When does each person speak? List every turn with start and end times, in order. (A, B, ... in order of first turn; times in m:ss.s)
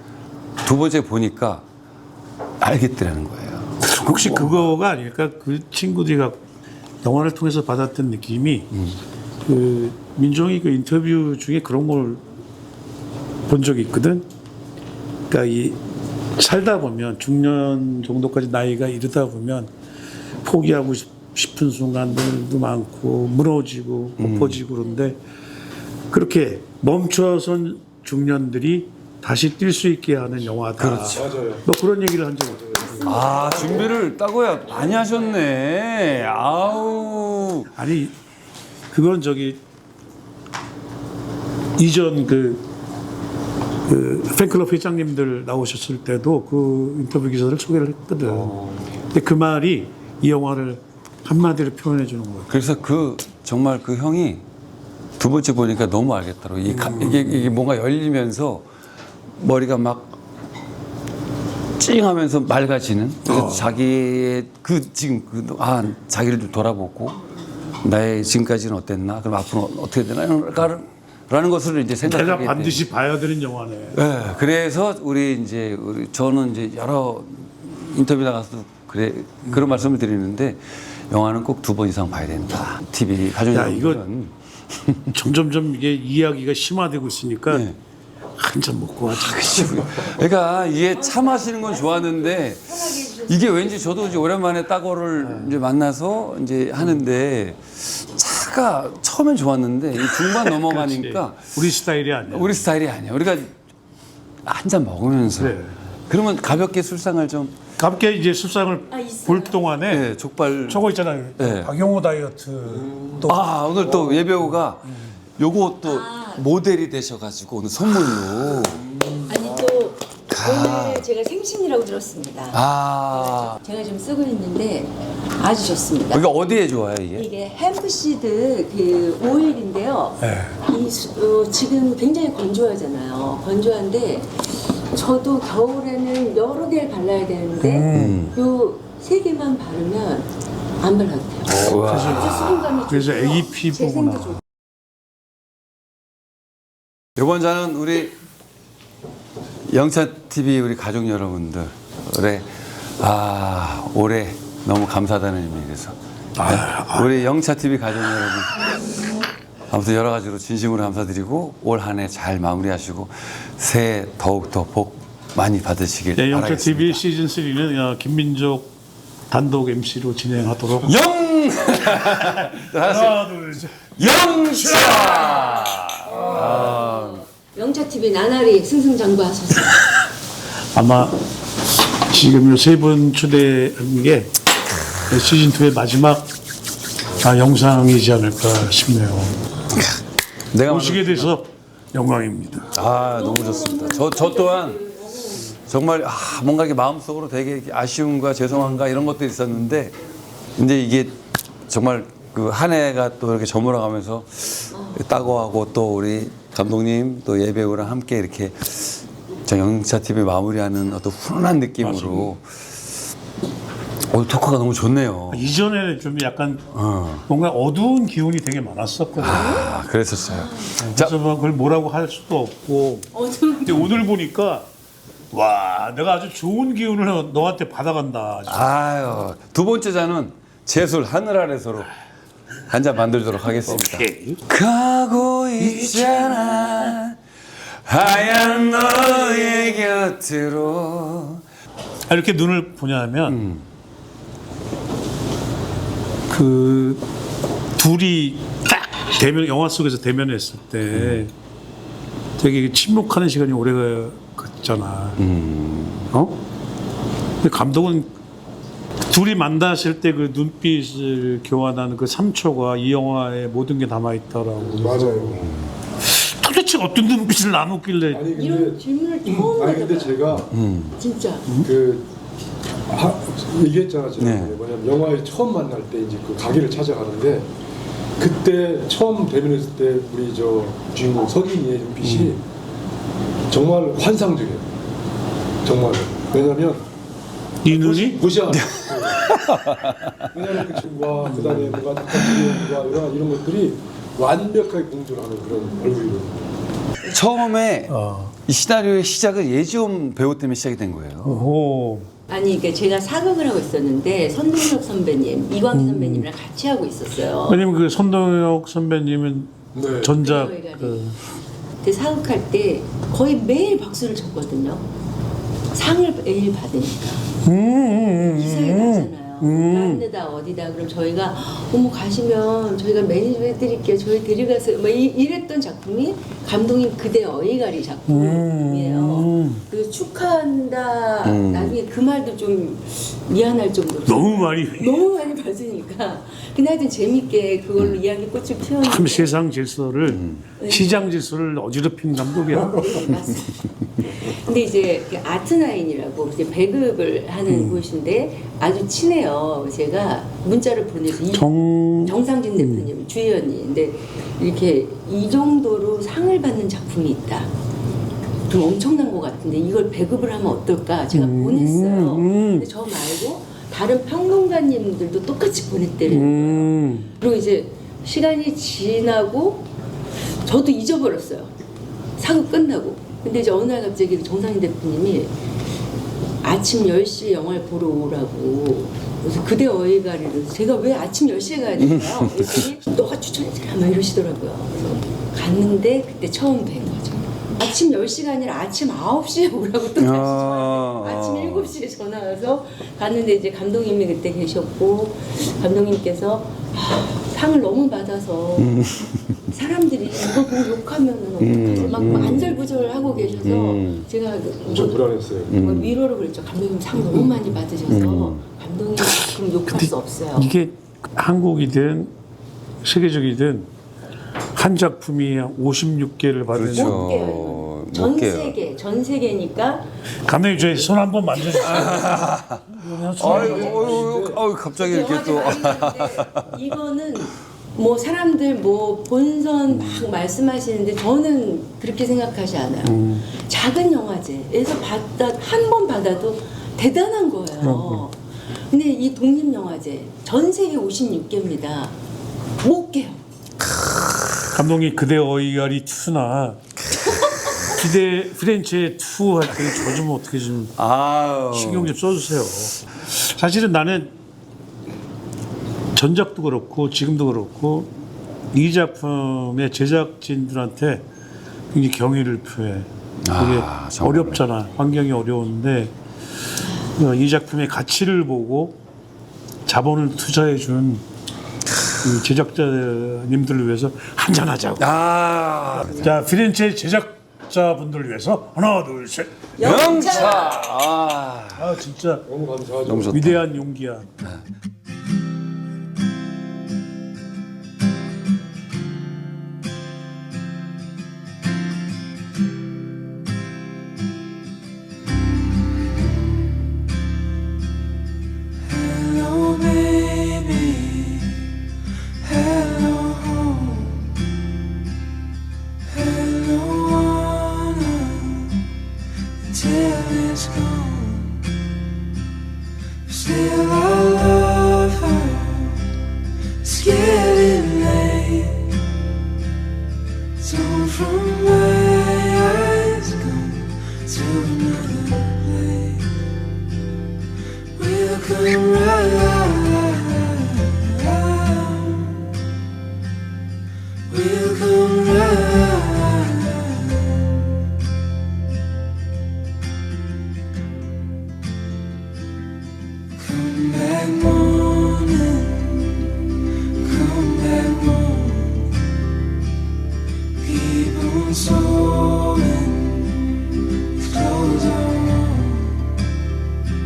0:00.6-0:01.6 A
0:02.6-0:04.7 A
0:03.8-0:06.4 B
0:07.0-0:08.7 B
0:08.7-0:09.0 A
0:09.4-0:12.2 B
0:13.5-0:14.2 B
0:15.3-0:15.8 B
0:16.4-0:19.7 B
0:20.4-0:25.2 B
0:24.2-0:24.6 A
0:26.1-0:32.8 B
0:30.8-0:31.3 A
0:31.1-0:31.6 C
0:32.7-0:35.4 D
0:33.0-0:37.7 A
0:37.7-0:38.1 B
0:38.9-0:39.6 B
0:41.8-0:42.6 B
0:43.9-0:48.6 B
0:48.2-0:48.9 C
0:49.1-0:52.5 B
0:52.5-0:54.4 A
0:55.2-0:58.6 A
0:56.7-0:57.5 B
0:59.4-1:00.2 A
1:01.8-1:07.2 A
1:03.2-1:03.7 B
1:07.8-1:12.8 A
1:12.0-1:14.0 B
1:13.9-1:25.2 A
1:23.5-1:24.0 B
1:25.1-1:27.6 B
1:27.5-1:27.8 A
1:28.4-1:30.1 B
1:29.1-1:41.6 A
1:30.7-1:34.3 D
1:35.2-1:35.6 B
1:40.0-1:42.6 B
1:42.2-1:43.5 A
1:44.4-1:47.6 A
1:45.4-1:45.8 B
1:47.8-1:50.1 B
1:48.9-1:49.7 D
1:49.9-1:50.8 A
1:50.7-1:53.4 B
1:51.4-1:51.7 A
1:52.6-1:53.3 C
1:53.2-1:58.8 A
1:53.8-1:54.2 C
1:55.8-1:56.4 D
1:59.2-2:02.6 D
2:00.3-2:01.0 A
2:02.5-2:03.6 A
2:03.1-2:06.3 D
2:06.1-2:07.3 A
2:07.1-2:24.4 D
2:10.2-2:10.6 B
2:17.6-2:18.2 B
2:17.9-2:18.3 A
2:21.5-2:22.8 A
2:21.7-2:24.4 B
2:27.2-2:28.1 A
2:29.7-2:38.7 A
2:36.4-2:37.1 B
2:39.7-2:47.0 A
2:46.2-2:48.7 B
2:49.3-2:50.9 B
2:50.8-2:53.2 A
2:52.0-2:55.4 B
2:54.0-2:57.2 A
2:56.1-2:59.8 D
3:00.7-3:01.2 B
3:02.1-3:04.3 B
3:05.1-3:06.3 B
3:07.2-3:09.4 B
3:09.7-3:11.3 A
3:10.6-3:12.7 B
3:12.7-3:14.8 A
3:12.8-3:15.5 D
3:15.3-3:20.0 A
3:20.6-3:32.7 A
3:31.8-3:32.3 B
3:34.1-3:35.4 A
3:35.3-3:36.6 B
3:36.7-3:37.3 A
3:37.3-3:39.5 B
3:39.2-3:41.1 A
3:39.2-3:40.8 D
3:40.8-3:43.1 B
3:43.1-3:43.9 D
3:43.6-3:44.6 B
3:45.3-3:48.7 B
3:48.5-3:51.9 A
3:52.7-4:01.4 A
3:53.6-3:54.4 B
3:55.6-3:56.9 B
4:02.1-4:03.4 B
4:03.3-4:03.6 A
4:06.3-4:07.0 B
4:07.8-4:11.3 B
4:10.9-4:11.2 A
4:12.4-4:15.2 B
4:15.2-4:16.1 A
4:16.1-4:16.4 B
4:17.4-4:18.1 B
4:19.1-4:28.2 B
4:24.6-4:25.6 C
4:28.1-4:30.5 C
4:28.3-4:30.2 D
4:30.4-4:31.0 A
4:31.0-4:31.5 D
4:31.6-4:32.1 C
4:32.9-4:37.5 C
4:34.2-4:34.6 A
4:38.2-4:42.4 C
4:42.0-4:42.4 B
4:43.5-4:44.7 C
4:45.6-4:46.9 C
4:47.6-4:48.2 B
4:47.7-4:49.4 C
4:48.5-4:50.3 A
4:50.3-4:56.5 C
4:51.2-4:51.8 B
4:55.6-4:56.0 D
4:57.0-4:57.9 A
4:57.9-4:58.3 B
4:58.4-5:01.4 A
5:01.2-5:02.1 B
5:02.3-5:07.6 D
5:05.7-5:06.3 B
5:07.5-5:11.2 B
5:09.7-5:10.1 C
5:10.2-5:11.1 D
5:11.8-5:14.9 D
5:15.7-5:17.3 D
5:17.4-5:20.0 B
5:18.2-5:39.3 D
5:28.1-5:29.6 B
5:31.2-5:31.8 A
5:34.0-5:35.0 B
5:38.8-5:43.0 B
5:40.0-5:40.4 A
5:40.6-5:41.1 D
5:42.5-5:57.5 D
5:47.5-5:47.8 B
5:51.2-5:52.9 B
5:58.5-6:09.7 D
6:01.1-6:02.7 B
6:06.1-6:07.1 B
6:10.4-6:11.5 D
6:12.2-6:15.4 D
6:16.4-6:38.8 D
6:21.8-6:22.6 A
6:30.0-6:31.7 A
6:38.6-6:39.4 A
6:39.5-6:50.5 D
6:41.4-6:42.5 A
6:43.4-6:44.0 A
6:44.6-6:45.5 C
6:45.5-6:45.9 A
6:47.9-6:48.4 A
6:49.7-6:52.1 B
6:52.8-6:53.7 B
6:54.5-6:57.0 B
6:56.5-6:58.6 A
6:56.7-6:59.9 D
7:00.2-7:03.8 B
7:01.3-7:01.9 D
7:01.6-7:06.5 A
7:03.2-7:04.4 C
7:03.5-7:04.0 D
7:04.7-7:21.9 D
7:12.8-7:13.3 B
7:17.6-7:18.0 B
7:22.6-7:23.2 D
7:24.5-7:26.6 B
7:27.7-7:30.7 B
7:30.7-7:32.0 A
7:31.5-7:34.1 B
7:35.9-7:37.9 B
7:38.5-7:41.0 B
7:41.7-7:45.9 B
7:43.2-7:44.4 A
7:46.7-7:48.8 B
7:49.6-7:51.0 B
7:52.0-7:54.9 B
7:54.8-7:56.1 A
7:55.8-7:59.4 B
7:59.6-8:00.7 D
7:59.6-8:01.7 A
8:01.5-8:02.2 B
8:02.2-8:03.1 C
8:02.8-8:03.4 A
8:03.1-8:04.1 B
8:18.9-8:21.3 D
8:22.2-8:23.9 D
8:26.0-8:28.4 D
8:29.5-8:31.3 D
8:33.1-8:35.7 D
8:36.6-8:38.7 D
8:40.4-8:46.1 D
8:47.8-8:52.1 D
8:54.1-8:56.7 D
9:03.2-9:05.8 D
9:06.8-9:08.6 D
9:10.4-9:13.1 D
9:14.0-9:15.6 D